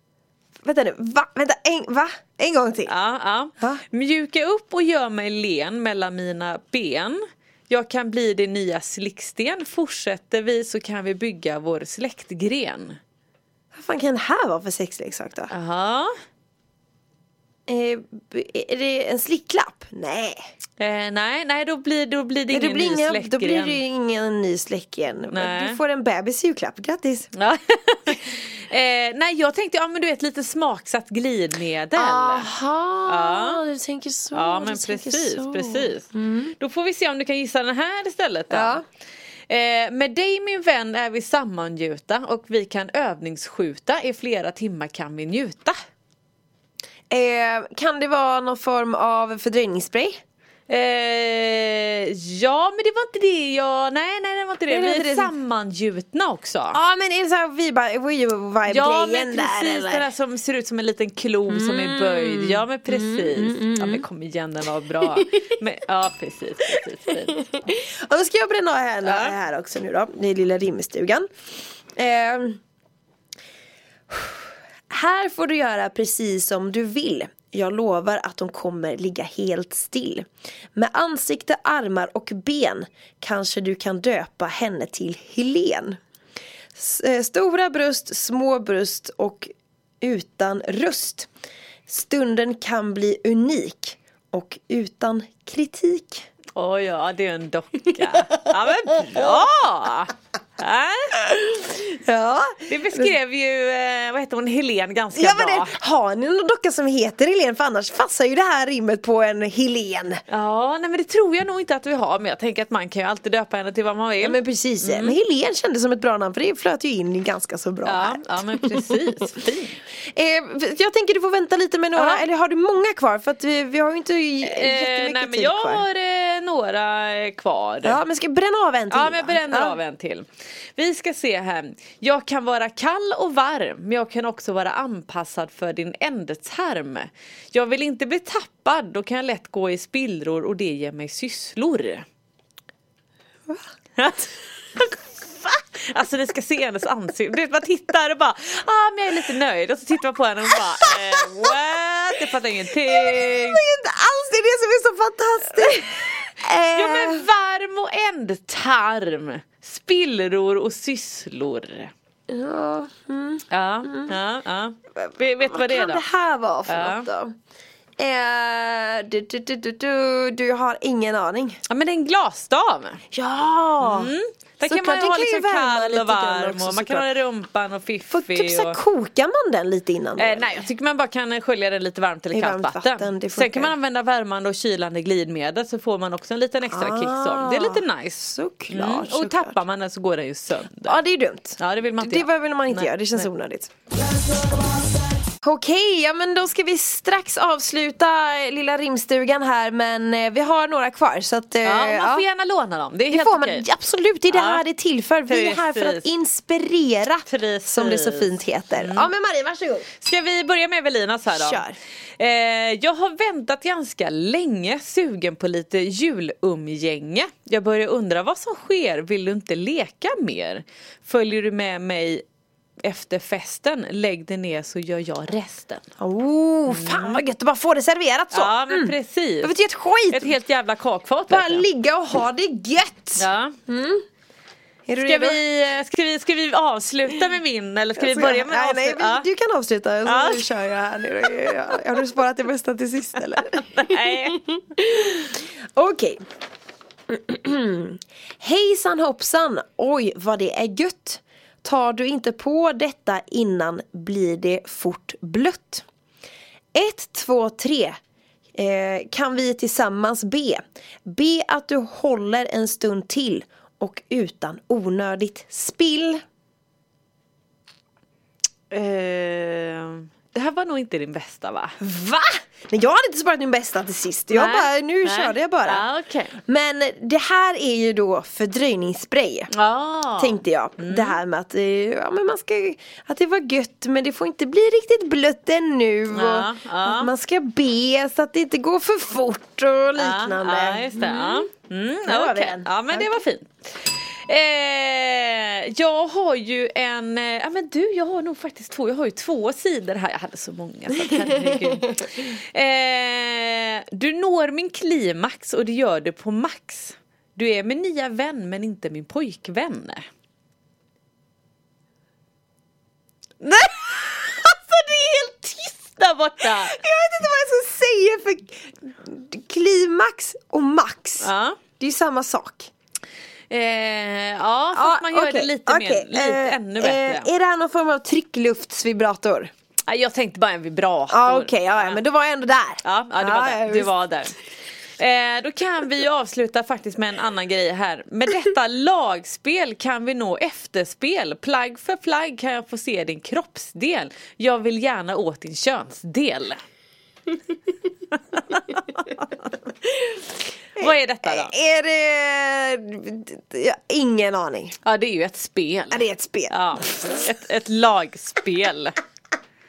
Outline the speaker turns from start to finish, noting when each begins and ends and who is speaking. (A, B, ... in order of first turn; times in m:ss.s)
0:00.6-0:02.9 A
0:02.8-0:13.0 B
0:13.7-0:15.5 A
0:15.5-0:16.1 B
0:17.7-0:20.4 A
0:20.8-0:23.8 B
0:22.5-0:27.3 A
0:25.3-0:25.8 B
0:27.4-0:32.5 B
0:31.9-0:36.5 A
0:33.1-0:33.6 B
0:34.3-0:36.1 B
0:36.6-0:38.8 B
0:38.5-0:38.8 A
0:39.5-0:45.8 B
0:47.1-0:50.2 A
0:50.7-0:56.8 B
0:54.7-0:55.3 A
0:56.7-1:00.0 A
0:58.7-1:07.4 B
1:01.5-1:04.0 A
1:06.7-1:11.3 A
1:09.0-1:09.3 B
1:12.0-1:12.6 A
1:14.1-1:26.0 A
1:26.7-1:31.3 A
1:31.9-1:36.2 A
1:36.6-1:41.3 B
1:38.1-1:39.4 A
1:41.2-1:43.1 A
1:42.6-1:45.7 B
1:45.1-1:50.2 A
1:50.3-1:55.2 B
1:54.2-1:59.0 A
1:57.8-1:59.8 B
2:00.1-2:05.8 A
2:01.9-2:02.2 B
2:04.4-2:08.0 B
2:07.8-2:09.8 A
2:08.9-2:22.0 B
2:24.0-2:33.6 B
2:30.5-2:31.6 A
2:32.1-2:37.2 A
2:36.7-2:41.9 B
2:42.3-2:44.2 A
2:43.5-2:46.0 B
2:44.9-2:47.3 A
2:46.7-2:47.1 B
2:48.0-2:51.6 A
2:51.7-2:53.0 B
2:53.1-2:54.1 A
2:53.8-2:58.8 B
2:54.6-2:57.1 A
2:58.1-3:00.7 A
3:00.2-3:11.0 B
3:02.3-3:03.7 A
3:06.7-3:09.6 A
3:10.8-3:13.7 A
3:11.6-3:13.3 B
3:15.4-3:22.2 A
3:21.6-3:23.6 B
3:23.1-3:29.9 A
3:24.3-3:24.6 B
3:25.3-3:26.1 B
3:27.2-3:29.1 B
3:30.0-3:31.6 B
3:31.3-3:31.8 A
3:32.2-3:42.2 B
3:42.8-3:45.8 B
3:46.0-3:50.4 A
3:46.7-3:47.2 B
3:48.3-3:49.5 B
3:50.1-3:51.6 B
3:51.3-3:54.0 A
3:53.2-3:53.5 B
3:54.9-3:55.4 A
3:55.0-3:59.3 B
3:57.9-4:05.1 A
4:00.0-4:00.6 B
4:01.2-4:01.7 B
4:03.5-4:04.5 B
4:05.8-4:06.2 A
4:07.1-4:15.8 A
4:16.7-4:17.9 A
4:18.5-4:26.2 A
4:28.7-4:31.7 B
4:31.8-4:35.8 A
4:34.3-4:36.3 B
4:36.4-4:39.5 A
4:39.5-4:41.2 B
4:40.2-4:51.5 A
4:46.1-4:47.1 B
4:50.0-5:10.0 B
4:52.0-4:53.1 A
5:13.4-5:16.8 B
5:16.4-5:22.7 A
5:21.2-5:21.6 B
5:23.5-5:27.3 B
5:24.7-5:29.5 A
5:29.9-5:32.0 B
5:31.1-5:34.0 A
5:32.8-5:34.3 B
5:35.0-5:46.6 B
5:48.3-5:49.5 B
5:50.0-5:51.5 B
5:50.8-5:54.8 A
5:54.8-5:58.9 B
5:55.9-5:57.2 A